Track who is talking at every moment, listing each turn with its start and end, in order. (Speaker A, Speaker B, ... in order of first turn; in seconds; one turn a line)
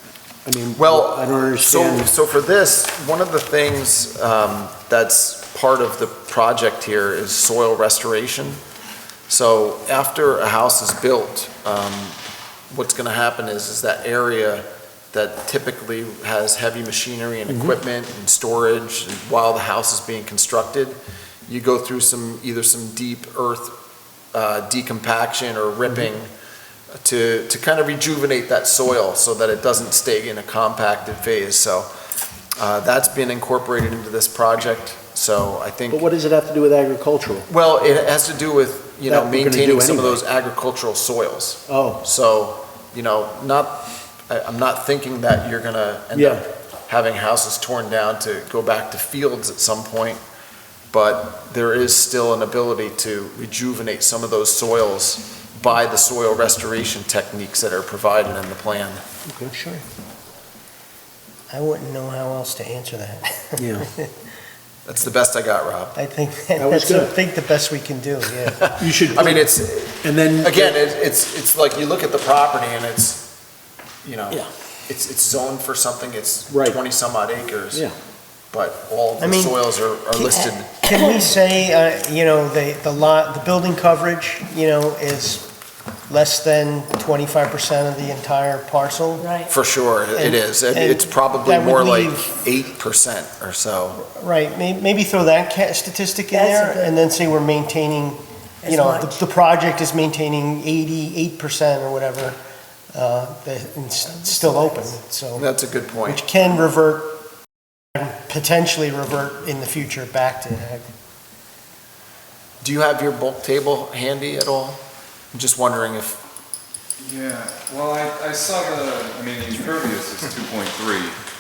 Speaker A: 0.4-2.1
Speaker B: 0.8-8.6
Speaker B: 9.3-23.8
Speaker A: 17.5-17.8
Speaker B: 24.3-26.3
Speaker B: 27.0-31.9
Speaker B: 32.6-36.0
Speaker A: 35.9-37.5
Speaker B: 37.5-50.2
Speaker A: 39.0-40.2
Speaker A: 41.7-42.0
Speaker A: 46.1-46.4
Speaker B: 50.9-59.0
Speaker A: 59.3-59.8
Speaker C: 61.5-64.1
Speaker A: 63.6-63.9
Speaker B: 64.8-65.9
Speaker C: 65.9-68.6
Speaker A: 66.6-67.1
Speaker B: 68.5-73.3
Speaker A: 68.6-70.8
Speaker B: 74.0-77.9
Speaker A: 76.5-76.8
Speaker A: 77.7-78.0
Speaker B: 78.5-80.9
Speaker C: 79.2-79.6
Speaker C: 80.1-85.5
Speaker C: 86.1-89.3
Speaker D: 89.2-89.5
Speaker B: 89.4-94.0
Speaker C: 90.1-92.3
Speaker C: 94.0-102.4
Speaker D: 96.3-96.9
Speaker D: 98.6-99.1
Speaker C: 102.9-105.5
Speaker D: 104.2-104.8
Speaker B: 105.3-106.2
Speaker C: 106.0-107.2
Speaker C: 107.9-110.8
Speaker B: 112.6-114.8
Speaker B: 115.3-116.2
Speaker E: 117.0-121.2